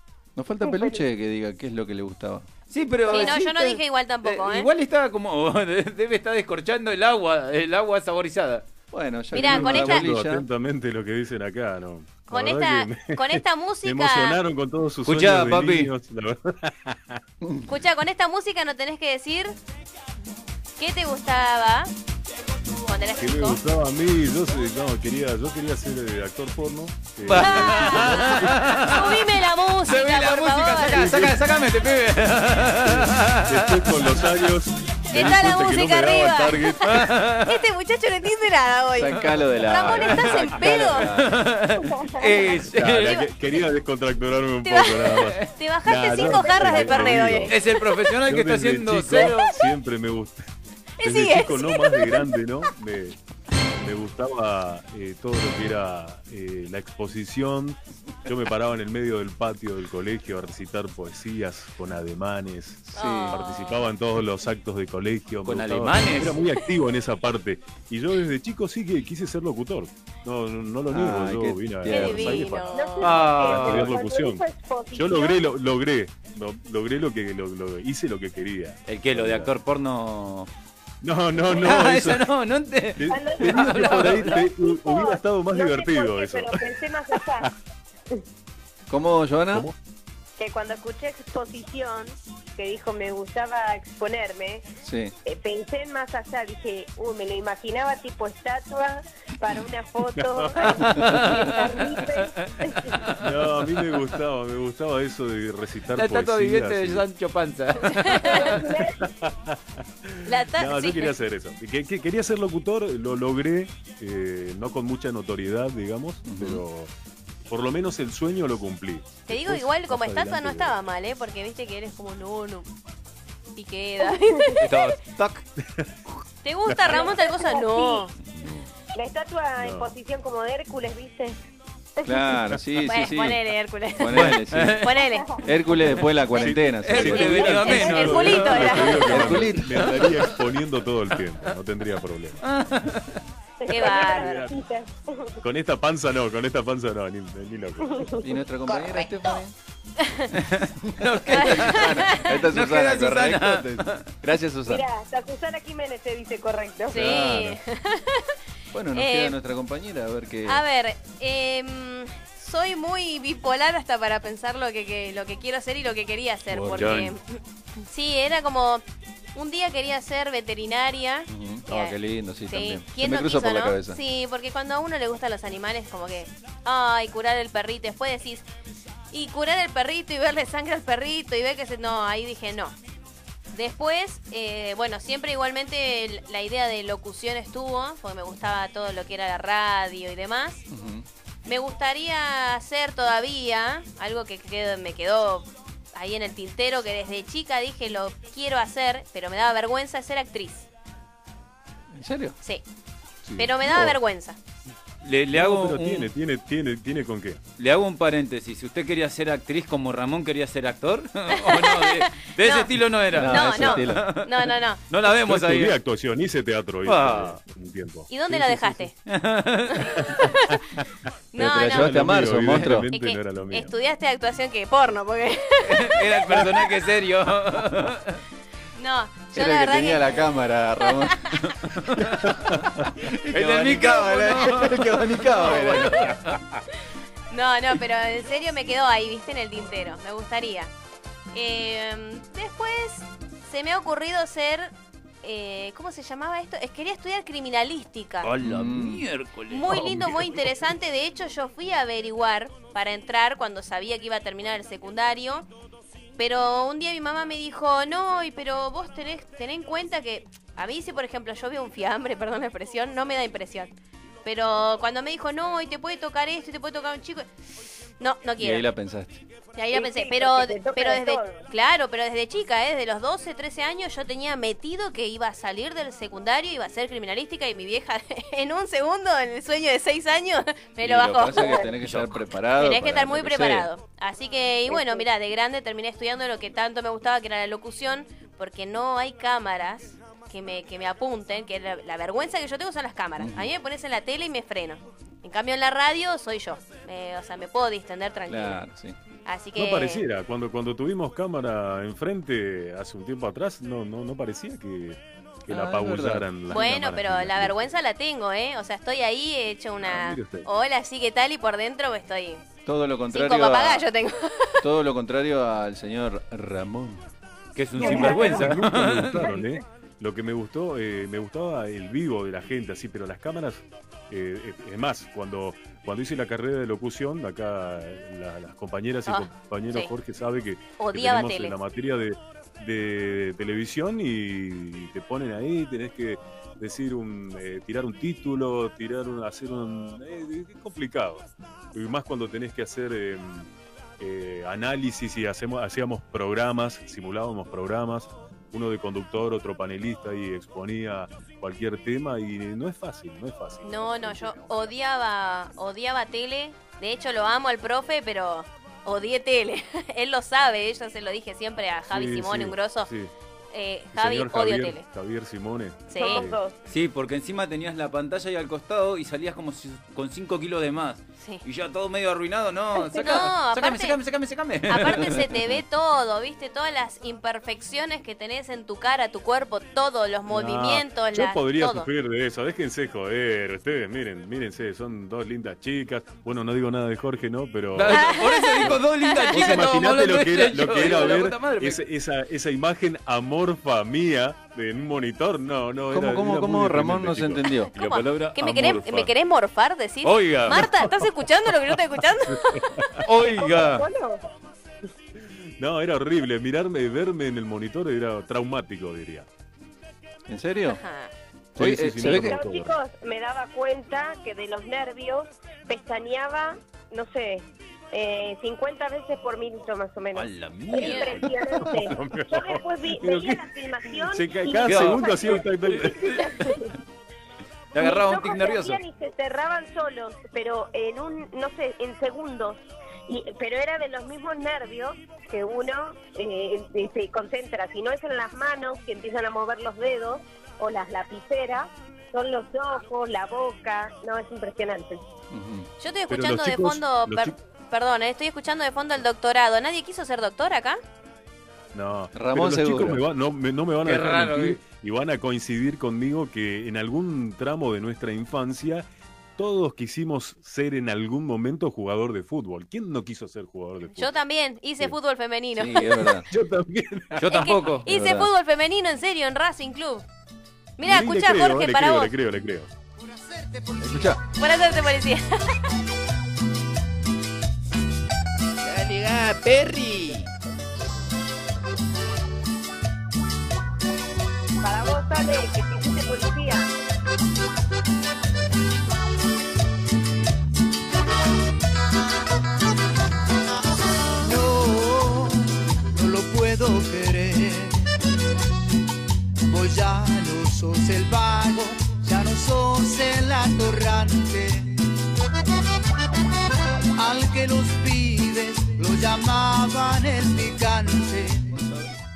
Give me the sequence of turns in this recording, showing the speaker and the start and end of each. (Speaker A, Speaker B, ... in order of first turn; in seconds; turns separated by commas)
Speaker A: 0.4-2.5, Speaker B: 0.6-1.0, Speaker C: 2.7-8.7, Speaker D: 3.1-4.7, Speaker A: 8.9-10.4, Speaker D: 9.3-10.1, Speaker E: 9.3-17.2, Speaker D: 12.3-14.4, Speaker C: 15.1-15.9, Speaker D: 17.7-19.6, Speaker D: 20.8-21.9, Speaker D: 22.9-23.6, Speaker E: 23.2-28.8, Speaker C: 27.3-34.1, Speaker D: 27.4-31.1, Speaker E: 30.9-31.4, Speaker E: 32.9-37.0, Speaker D: 35.1-41.1, Speaker C: 36.8-37.6, Speaker A: 39.0-41.4, Speaker C: 41.0-43.2, Speaker B: 42.0-42.3, Speaker E: 42.7-47.6, Speaker D: 43.0-43.3, Speaker D: 44.6-47.8, Speaker C: 47.5-49.5, Speaker E: 48.2-50.5, Speaker D: 51.0-52.3, Speaker E: 51.0-53.2, Speaker E: 53.8-74.4, Speaker A: 62.9-63.4, Speaker D: 63.0-63.8, Speaker C: 65.5-66.4, Speaker A: 70.9-72.5, Speaker D: 71.9-73.1, Speaker B: 72.7-75.4, Speaker C: 73.0-73.9, Speaker E: 75.0-79.5, Speaker C: 78.9-80.5, Speaker E: 81.0-82.3, Speaker C: 81.5-84.5, Speaker E: 83.0-86.6, Speaker B: 83.1-87.5, Speaker A: 88.9-89.7, Speaker B: 90.4-94.7, Speaker A: 94.8-95.1, Speaker B: 95.2-103.0, Speaker E: 100.2-100.8, Speaker C: 100.9-101.5, Speaker E: 103.2-107.0, Speaker C: 105.9-108.7, Speaker D: 107.9-108.5, Speaker B: 108.2-109.0, Speaker E: 109.0-116.9, Speaker D: 110.3-111.1, Speaker A: 116.3-116.6, Speaker E: 117.5-120.8, Speaker D: 119.3-122.7, Speaker D: 123.6-124.6, Speaker C: 124.6-125.5, Speaker E: 125.6-125.9, Speaker D: 126.4-128.1, Speaker B: 126.9-128.1, Speaker B: 128.9-131.4, Speaker E: 129.6-129.9, Speaker B: 132.0-132.3, Speaker A: 132.1-133.4, Speaker D: 132.8-135.3, Speaker A: 134.0-134.9, Speaker C: 134.1-134.9, Speaker B: 135.2-135.4, Speaker A: 135.4-138.0, Speaker E: 136.3-142.4, Speaker D: 136.4-139.3, Speaker C: 136.8-139.0, Speaker A: 139.0-140.0, Speaker C: 142.4-143.2, Speaker B: 143.6-145.4, Speaker D: 143.7-144.4, Speaker E: 143.8-144.6, Speaker E: 145.4-148.1, Speaker B: 147.9-148.2, Speaker A: 148.2-149.5, Speaker D: 150.0-150.3, Speaker C: 150.4-154.1, Speaker A: 151.3-154.8, Speaker D: 151.3-152.3, Speaker B: 154.7-157.0, Speaker D: 156.9-158.3, Speaker A: 156.9-157.6, Speaker A: 158.7-160.6, Speaker D: 158.9-159.4, Speaker D: 160.5-168.8, Speaker E: 166.7-167.1, Speaker D: 169.3-172.0, Speaker A: 171.3-174.0, Speaker D: 172.5-178.4, Speaker D: 179.1-182.8, Speaker D: 183.5-190.6, Speaker A: 190.7-191.1, Speaker D: 191.5-200.7, Speaker A: 201.9-202.4, Speaker A: 203.3-203.9, Speaker D: 203.4-204.4, Speaker C: 205.0-206.1, Speaker E: 205.3-207.4, Speaker C: 207.6-215.8, Speaker D: 211.3-212.7, Speaker A: 213.1-214.1, Speaker D: 213.2-214.8, Speaker E: 215.1-218.8, Speaker C: 216.9-217.4, Speaker D: 218.1-218.9, Speaker C: 219.1-219.9, Speaker D: 219.8-220.6, Speaker D: 221.3-222.0, Speaker A: 221.4-222.9, Speaker E: 221.4-223.7, Speaker D: 222.9-226.4, Speaker C: 225.6-228.2, Speaker D: 228.8-230.3, Speaker A: 229.3-236.2, Speaker D: 230.8-231.4, Speaker C: 233.3-236.4, Speaker D: 237.3-240.7, Speaker D: 241.3-244.7, Speaker D: 245.2-248.3, Speaker C: 248.2-250.4, Speaker A: 248.4-249.1, Speaker D: 249.5-255.5, Speaker D: 256.2-263.7, Speaker D: 264.2-267.3, Speaker D: 268.0-268.7, Speaker A: 268.4-269.2, Speaker D: 269.6-281.7, Speaker B: 269.7-271.4, Speaker A: 280.8-283.7, Speaker C: 281.8-282.2, Speaker D: 282.6-298.6, Speaker A: 293.2-293.5, Speaker A: 298.3-299.0, Speaker D: 299.3-300.1, Speaker E: 299.6-307.8, Speaker A: 305.5-306.3, Speaker D: 306.5-312.4, Speaker E: 309.8-310.5, Speaker A: 312.6-313.9, Speaker D: 313.1-314.6, Speaker A: 314.6-317.0, Speaker C: 317.6-319.3, Speaker E: 317.8-354.7, Speaker B: 317.9-318.3, Speaker D: 329.1-329.9, Speaker D: 330.8-331.6, Speaker D: 353.6-362.9, Speaker E: 361.9-363.1, Speaker D: 363.5-364.8, Speaker E: 363.9-366.4, Speaker D: 365.9-366.3, Speaker B: 365.9-366.6, Speaker C: 366.7-375.3, Speaker D: 372.9-374.0, Speaker D: 374.7-381.9, Speaker E: 380.3-388.8, Speaker C: 387.8-391.8, Speaker D: 387.9-389.4, Speaker E: 389.3-399.1, Speaker A: 395.9-397.7, Speaker D: 397.7-402.9, Speaker C: 398.0-398.4, Speaker C: 400.0-400.6, Speaker E: 400.5-401.1, Speaker E: 402.3-403.0, Speaker C: 403.1-403.9, Speaker B: 403.4-404.2, Speaker E: 405.6-409.3, Speaker A: 410.3-410.8, Speaker D: 410.7-411.1, Speaker A: 411.6-412.4, Speaker E: 411.6-412.7, Speaker B: 412.0-425.5, Speaker C: 420.1-421.3, Speaker D: 420.8-421.1, Speaker E: 421.6-426.3, Speaker C: 424.6-426.3, Speaker B: 426.0-426.7, Speaker C: 427.7-428.8, Speaker B: 427.8-445.0, Speaker A: 445.3-445.7, Speaker D: 445.8-450.8, Speaker E: 446.1-447.4, Speaker E: 451.7-464.1, Speaker A: 452.1-453.0, Speaker C: 453.9-454.6, Speaker D: 464.0-466.1, Speaker A: 465.6-466.3, Speaker E: 466.3-467.2, Speaker C: 467.2-467.8, Speaker D: 467.3-470.1, Speaker A: 467.9-468.3, Speaker D: 470.8-472.1, Speaker E: 470.8-472.7, Speaker A: 473.8-474.2, Speaker D: 474.4-475.6, Speaker A: 478.7-480.3, Speaker B: 484.6-486.7, Speaker F: 494.2-497.9, Speaker F: 499.5-504.8, Speaker F: 507.0-511.6